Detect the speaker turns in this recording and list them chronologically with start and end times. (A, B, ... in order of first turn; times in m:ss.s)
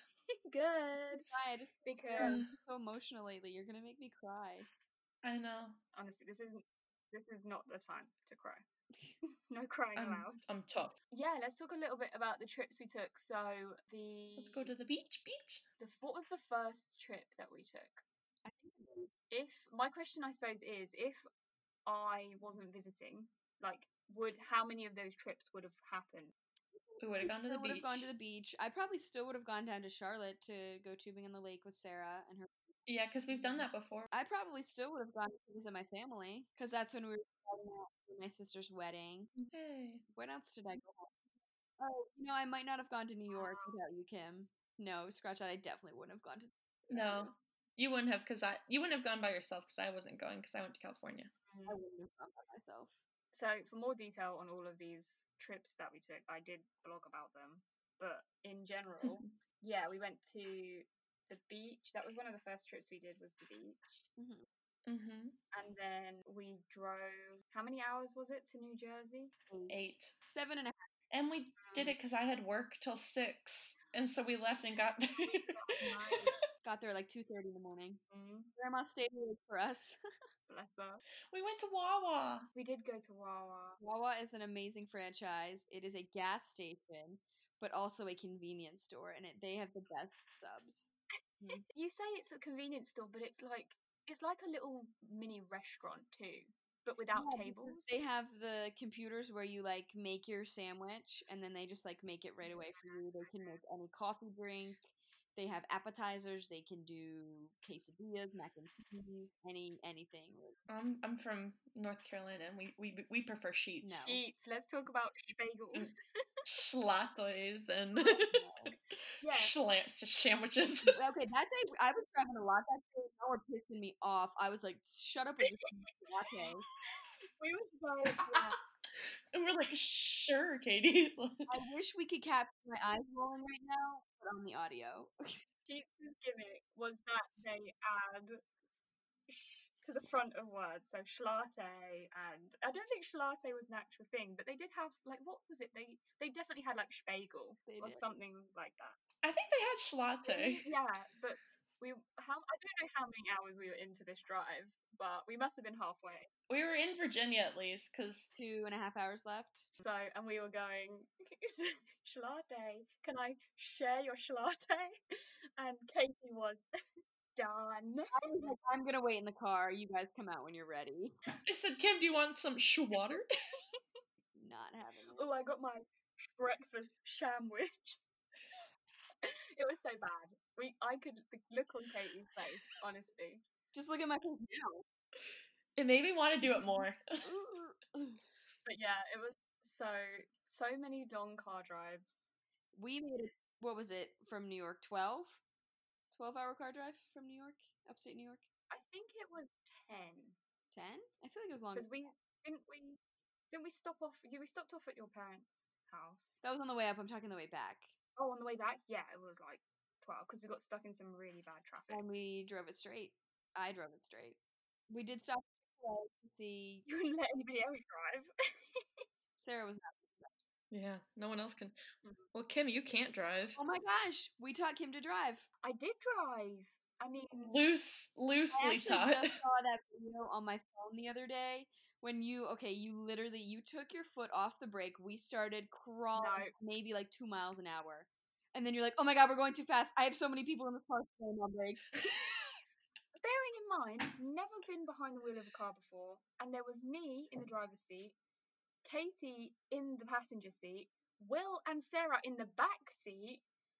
0:00.3-0:01.3 A
0:01.3-0:04.7 B
0:01.8-0:02.4 A
0:02.2-0:02.5 C
0:05.2-0:05.8 C
0:05.9-0:08.6 A
0:09.5-0:10.4 A
0:10.0-0:11.0 C
0:11.1-0:14.7 A
0:14.4-0:15.6 C
0:15.8-0:18.0 A
0:18.4-0:19.1 B
0:19.3-0:21.2 A
0:21.9-0:26.3 A
0:26.8-0:32.8 B
0:27.0-0:28.1 C
0:32.9-0:34.1 C
0:33.3-0:33.7 A
0:34.1-0:39.3 B
0:39.4-0:40.0 C
0:40.1-0:41.2 B
0:41.8-0:47.4 B
0:43.3-0:43.8 A
0:46.9-0:51.3 C
0:51.5-0:51.8 A
0:51.6-0:53.0 B
0:53.3-1:04.0 A
0:59.0-0:59.3 C
1:04.2-1:04.5 B
1:04.9-1:05.4 C
1:05.5-1:09.4 A
1:09.5-1:10.9 B
1:09.7-1:10.1 C
1:11.1-1:16.4 C
1:11.6-1:12.0 A
1:15.1-1:16.4 A
1:16.6-1:18.0 B
1:18.1-1:18.5 A
1:18.6-1:20.0 B
1:20.5-1:21.0 A
1:21.3-1:22.5 C
1:22.6-1:23.8 A
1:23.8-1:31.6 B
1:31.7-1:38.0 A
1:37.2-1:50.6 B
1:42.4-1:43.6 A
1:50.7-1:54.1 C
1:53.8-1:54.2 B
1:54.0-1:55.9 A
1:56.4-1:58.8 C
1:58.0-1:58.8 B
1:59.2-1:59.6 A
1:59.2-2:01.0 C
2:00.8-2:06.6 B
2:07.2-2:08.6 A
2:09.3-2:11.5 C
2:11.5-2:15.4 B
2:15.6-2:18.4 A
2:19.3-2:29.0 A
2:27.6-2:28.1 B
2:29.2-2:30.7 C
2:30.2-2:36.3 A
2:36.5-2:38.3 C
2:38.3-2:39.7 B
2:39.8-2:45.0 A
2:45.6-2:46.6 A
2:47.4-2:48.1 A
2:48.1-2:51.1 B
2:51.5-2:53.2 C
2:54.4-2:55.2 B
2:55.2-2:58.0 A
2:59.2-3:03.4 A
3:03.7-3:04.8 B
3:05.8-3:07.3 C
3:06.4-3:08.2 B
3:08.6-3:12.3 A
3:12.7-3:15.4 B
3:16.1-3:18.4 B
3:18.7-3:20.4 A
3:20.7-3:21.9 B
3:21.7-3:23.0 A
3:23.5-3:26.4 A
3:26.4-3:27.9 B
3:28.2-3:32.0 A
3:31.9-3:36.8 B
3:36.9-3:38.8 A
3:39.4-3:40.4 B
3:40.7-3:41.8 C
3:42.3-3:43.6 C
3:43.6-3:45.5 B
3:45.6-3:47.5 A
3:47.4-3:49.2 C
3:48.5-4:02.1 B
3:56.2-3:56.5 A
4:03.2-4:08.2 A
4:08.8-4:13.4 A